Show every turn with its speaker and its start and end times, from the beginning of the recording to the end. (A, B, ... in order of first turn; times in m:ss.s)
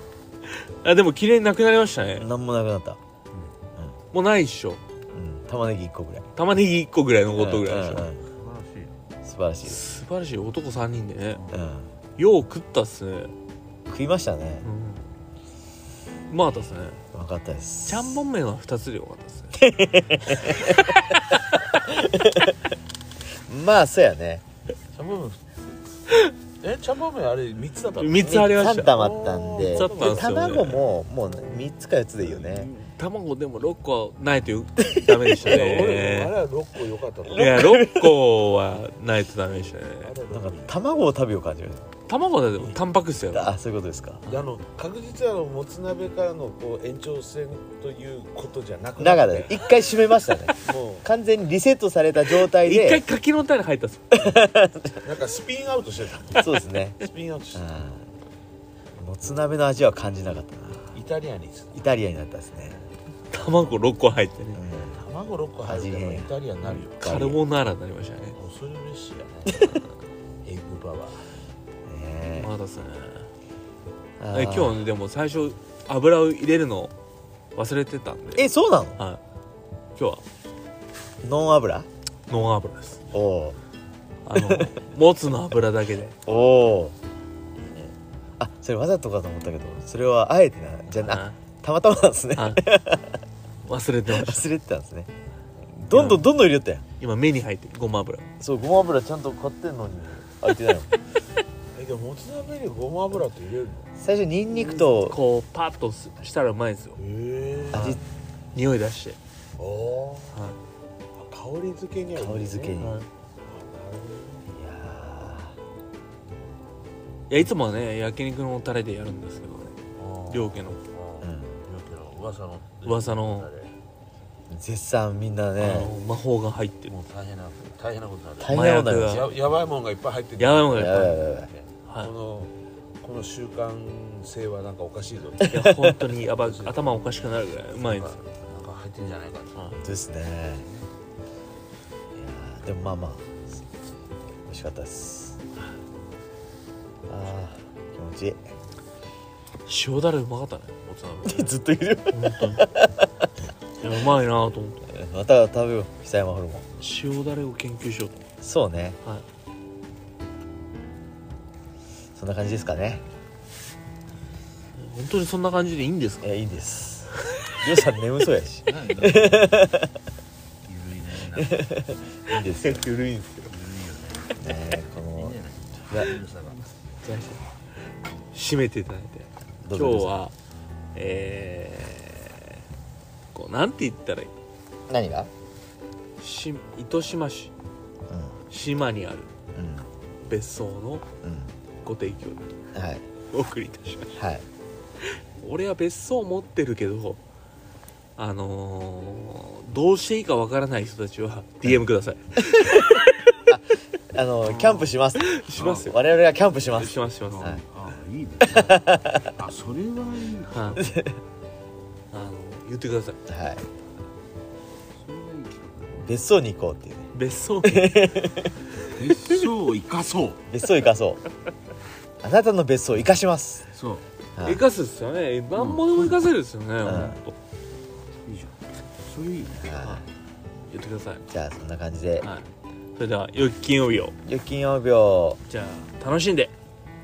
0:00.5-0:02.3 A
0:02.2-0:03.0 B
0:04.1-0:04.8 A
0:05.1-0:06.3 B
0:06.3-0:08.1 A
0:07.3-0:08.2 B
0:08.3-0:09.0 C
0:09.2-0:09.8 B
0:09.6-0:11.4 A
0:11.5-0:11.9 B
0:12.2-0:13.3 A
0:13.9-0:14.6 B
0:14.6-0:15.1 A
0:16.3-0:17.0 A
0:17.1-0:18.2 B
0:17.9-0:19.6 A
0:19.6-0:21.0 B
0:20.4-0:21.7 A
0:21.7-0:22.6 B
0:23.4-0:24.4 B
0:24.9-0:25.5 C
0:26.6-0:30.6 C
0:28.0-0:29.0 A
0:28.2-0:32.7 B
0:29.6-0:30.8 A
0:32.2-0:32.7 C
0:32.7-0:36.4 A
0:34.9-0:35.6 B
0:35.4-0:37.6 C
0:37.3-0:38.2 B
0:37.3-0:40.1 A
0:40.0-0:40.8 C
0:40.3-0:41.8 B
0:42.1-0:43.5 A
0:43.3-0:44.3 B
0:44.2-0:49.6 C
0:49.0-0:53.0 B
0:50.6-0:51.1 C
0:52.3-0:54.4 A
0:54.1-0:55.0 B
0:55.0-0:57.7 C
0:56.4-0:57.0 B
0:57.5-0:58.1 B
0:59.0-1:01.0 B
1:00.9-1:01.9 C
1:01.7-1:02.8 B
1:03.3-1:04.6 A
1:03.3-1:03.7 C
1:04.5-1:05.0 B
1:04.9-1:06.9 C
1:05.6-1:06.3 B
1:06.6-1:08.4 A
1:07.0-1:07.4 B
1:08.4-1:09.8 C
1:10.4-1:11.3 C
1:11.8-1:12.5 B
1:12.4-1:13.3 A
1:14.2-1:14.8 B
1:14.3-1:16.9 A
1:17.6-1:19.2 A
1:18.3-1:19.0 B
1:20.0-1:20.2 A
1:21.2-1:21.9 B
1:22.3-1:23.0 A
1:23.1-1:23.6 B
1:24.2-1:26.2 A
1:24.4-1:24.7 B
1:26.2-1:27.0 B
1:27.6-1:27.9 C
1:28.4-1:33.2 B
1:30.9-1:31.4 A
1:32.4-1:32.6 A
1:33.6-1:34.5 A
1:34.1-1:35.1 B
1:35.8-1:36.8 B
1:35.9-1:36.3 A
1:37.0-1:38.3 A
1:38.4-1:40.9 B
1:41.7-1:43.9 C
1:44.0-1:45.2 B
1:44.8-1:47.0 A
1:47.0-1:48.0 C
1:47.7-1:48.0 B
1:47.7-1:48.0 A
1:48.5-1:49.2 A
1:49.6-1:50.4 C
1:50.3-1:50.6 A
1:51.2-1:52.8 C
1:52.1-1:53.0 B
1:52.8-1:53.1 A
1:53.4-1:54.4 C
1:54.5-1:55.6 B
1:57.3-1:59.7 A
2:00.0-2:03.7 C
2:00.3-2:00.8 A
2:01.2-2:01.6 B
2:02.8-2:03.5 A
2:04.5-2:05.9 B
2:05.6-2:06.9 A
2:06.9-2:15.7 C
2:08.4-2:09.3 B
2:08.4-2:09.3 A
2:10.4-2:11.2 A
2:10.7-2:11.5 B
2:11.9-2:12.1 A
2:15.5-2:18.1 A
2:15.5-2:15.9 B
2:16.3-2:16.9 C
2:17.7-2:19.8 C
2:19.8-2:20.6 B
2:20.6-2:20.9 C
2:22.1-2:23.4 B
2:24.5-2:25.4 B
2:27.1-2:28.5 B
2:29.6-2:31.6 A
2:31.2-2:33.1 B
2:32.1-2:32.6 A
2:33.8-2:34.8 A
2:34.9-2:36.7 B
2:36.8-2:38.2 A
2:38.4-2:39.0 B
2:42.2-2:43.0 B
2:44.8-2:46.3 A
2:46.2-2:49.9 B
2:48.6-2:49.5 C
2:50.6-2:51.9 C
2:51.4-2:52.8 B
2:52.4-2:53.5 A
2:53.5-2:54.4 C
2:54.4-2:55.4 B
2:55.1-2:56.6 C
2:57.0-2:57.4 A
2:58.3-3:00.3 A
2:59.6-3:00.1 B
3:00.9-3:02.6 A
3:03.3-3:04.3 A
3:04.9-3:05.3 B
3:06.2-3:07.5 A
3:08.1-3:08.4 B
3:08.5-3:09.3 A
3:09.5-3:09.9 B
3:10.3-3:11.0 A
3:11.2-3:11.5 B
3:11.8-3:12.5 A
3:12.7-3:13.0 B
3:13.3-3:14.2 A
3:14.1-3:14.4 B
3:15.0-3:17.2 A
3:18.2-3:23.5 A
3:22.6-3:27.6 B
3:24.4-3:25.9 A
3:25.5-3:25.9 C
3:26.6-3:27.6 A
3:27.2-3:30.9 C
3:28.5-3:29.3 B
3:30.5-3:30.9 A
3:30.8-3:31.2 B
3:32.1-3:33.2 A
3:33.3-3:33.7 B
3:35.0-3:36.0 C
3:36.0-3:37.1 B
3:37.1-3:38.1 A
3:37.6-3:38.6 B
3:38.9-3:40.4 C
3:40.5-3:41.2 B
3:42.2-3:43.7 B
3:43.7-3:44.1 C
3:44.4-3:44.6 B
3:44.4-3:47.3 A
3:45.5-3:46.3 C
3:46.8-3:47.2 B
3:48.2-3:49.8 C
3:49.6-3:50.1 B
3:50.7-3:51.2 A
3:51.3-3:52.3 B
3:52.2-3:54.1 A
3:54.2-3:55.4 B
3:55.4-3:56.5 A